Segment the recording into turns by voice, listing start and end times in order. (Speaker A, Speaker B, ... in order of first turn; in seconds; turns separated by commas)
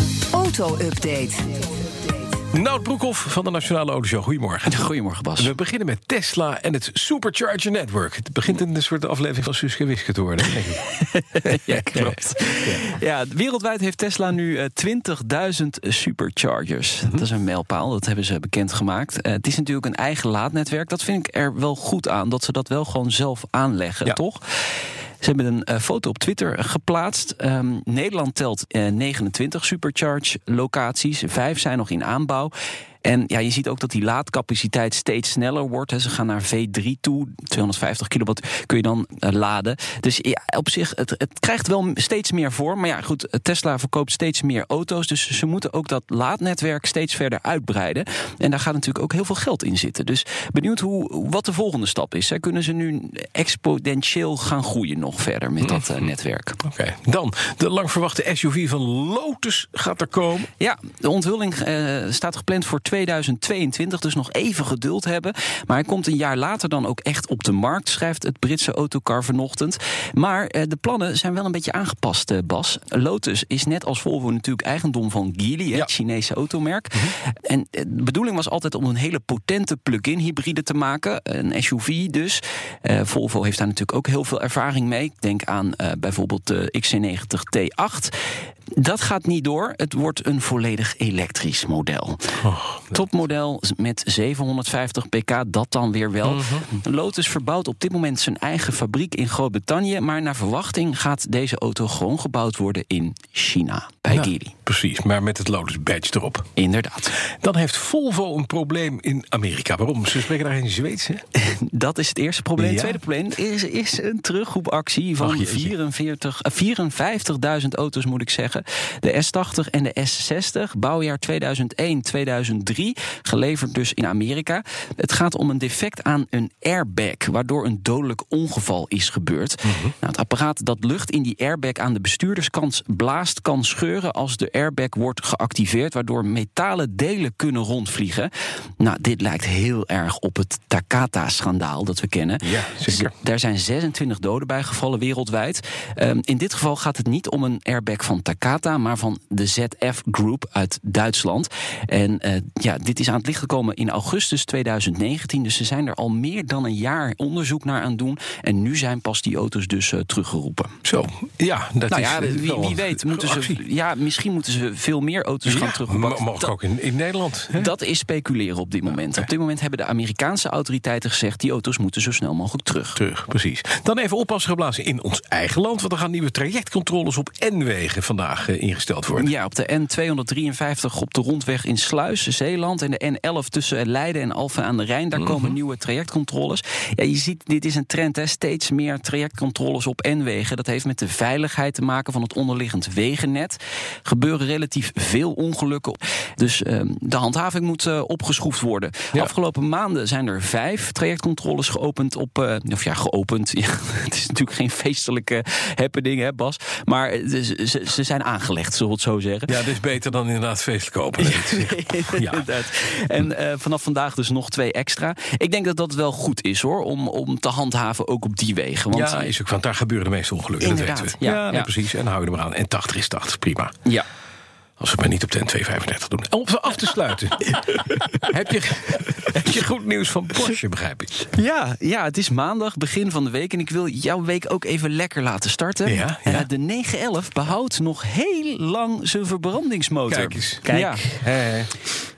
Speaker A: 0.3-2.2, Speaker B: 2.5-12.8, Speaker C: 4.6-5.5, Speaker C: 11.1-24.6, Speaker C: 25.2-32.5, Speaker C: 33.0-56.6, Speaker B: 56.6-60.5, Speaker C: 60.6-88.1, Speaker C: 88.8-92.3, Speaker B: 92.4-93.0, Speaker C: 92.9-104.5, Speaker B: 96.2-96.7, Speaker B: 104.1-106.5, Speaker C: 106.5-107.1, Speaker B: 107.4-111.2, Speaker C: 111.3-160.8, Speaker B: 112.6-113.0, Speaker B: 115.2-115.7, Speaker B: 129.7-129.9, Speaker B: 142.4-143.1, Speaker B: 160.8-163.6, Speaker C: 161.9-166.5, Speaker B: 165.4-167.7, Speaker C: 167.5-173.0, Speaker B: 173.0-179.3, Speaker C: 179.1-209.5, Speaker B: 209.5-212.4, Speaker C: 211.2-219.3, Speaker B: 218.9-223.7, Speaker C: 220.6-221.7, Speaker B: 224.8-231.2, Speaker C: 231.3-241.2, Speaker B: 235.8-236.5, Speaker B: 240.1-241.7